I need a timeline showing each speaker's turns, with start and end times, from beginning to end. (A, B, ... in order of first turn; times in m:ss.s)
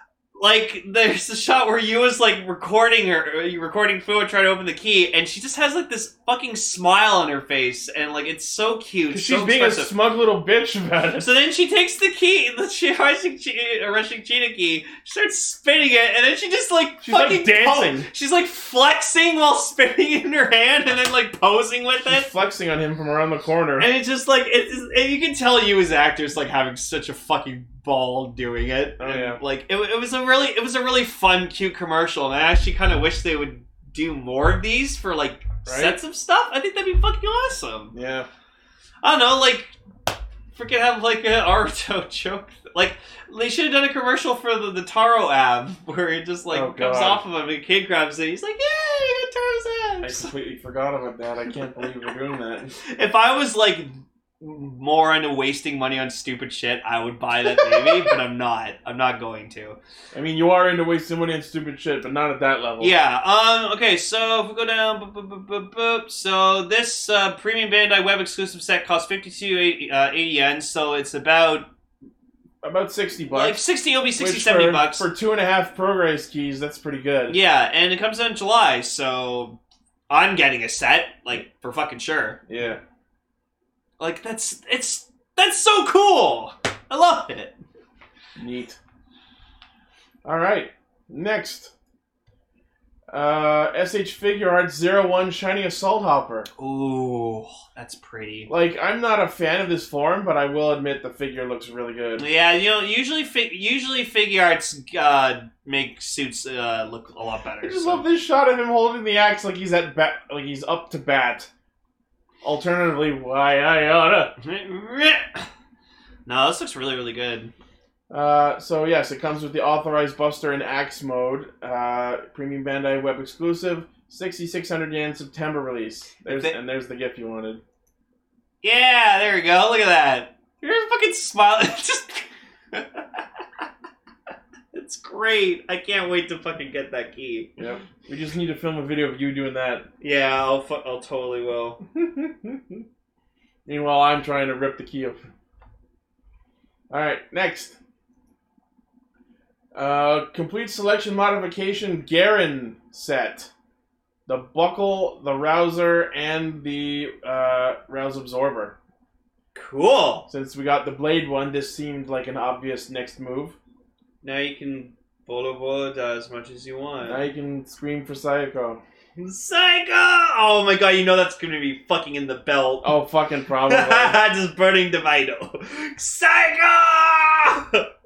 0:00.4-0:09.9 A
0:09.1-0:11.3 B
0:11.2-0:22.3 A
0:17.0-0:18.1 B
0:22.0-0:23.9 B
0:23.8-0:37.9 A
0:29.0-0:29.4 B
0:35.6-0:36.0 B
0:37.9-0:38.3 B
0:39.0-0:39.7 A
0:40.5-0:50.3 A
0:46.5-0:47.2 B
0:50.0-0:52.7 B
0:52.8-0:59.8 A
1:00.1-1:02.9 B
1:02.8-1:11.7 A
1:12.6-1:13.6 B
1:13.3-1:15.1 A
1:14.2-1:17.4 B
1:17.3-1:22.4 A
1:22.5-1:22.8 B
1:24.0-1:27.6 A
1:28.4-1:28.8 B
1:30.2-1:31.7 B
1:33.1-1:36.5 B
1:36.6-1:38.5 A
1:38.5-1:42.2 B
1:42.2-1:48.0 A
1:47.6-1:51.5 B
1:52.4-1:54.3 B
1:54.4-1:55.5 A
1:56.2-1:57.5 A
1:58.1-2:07.6 B
2:06.2-2:06.6 A
2:08.6-2:13.2 A
2:14.7-2:17.5 A
2:17.6-2:19.9 B
2:20.0-2:21.8 A
2:21.9-2:22.8 B
2:23.6-2:25.2 B
2:26.9-2:27.8 B
2:29.7-2:33.5 B
2:34.3-2:38.8 B
2:39.5-2:40.3 A
2:40.3-2:43.6 B
2:44.2-2:47.2 A
2:47.0-2:48.8 B
2:49.2-2:53.0 A
2:52.8-2:54.2 B
2:53.6-2:57.9 A